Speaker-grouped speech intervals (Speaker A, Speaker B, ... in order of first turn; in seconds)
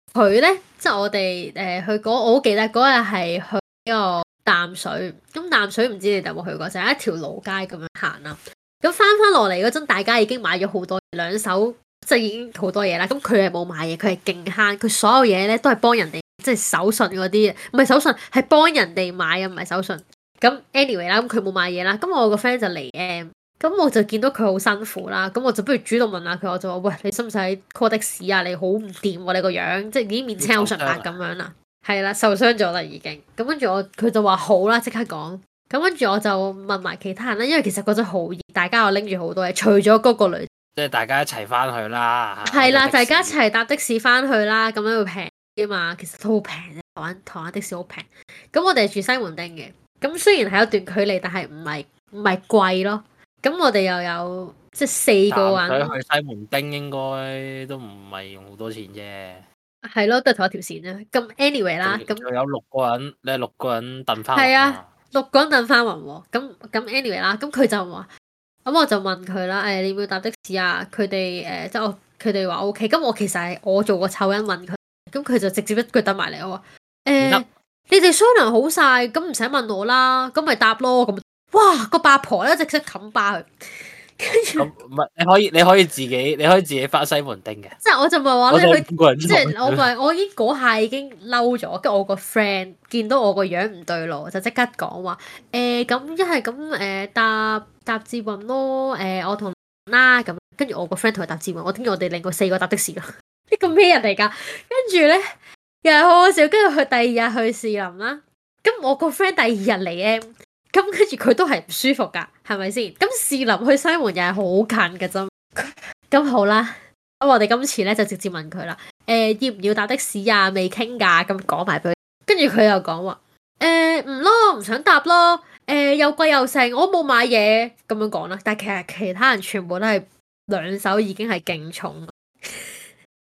Speaker A: 0.1-40.5, 42.5-56.0, 59.8-62.2, 64.3-68.1, 68.6-84.7, 87.8-105.2, 105.8-132.8
Speaker B: 30.4-31.1, 40.8-43.4, 55.3-59.4, 61.8-64.9, 84.6-87.8, 88.5-89.9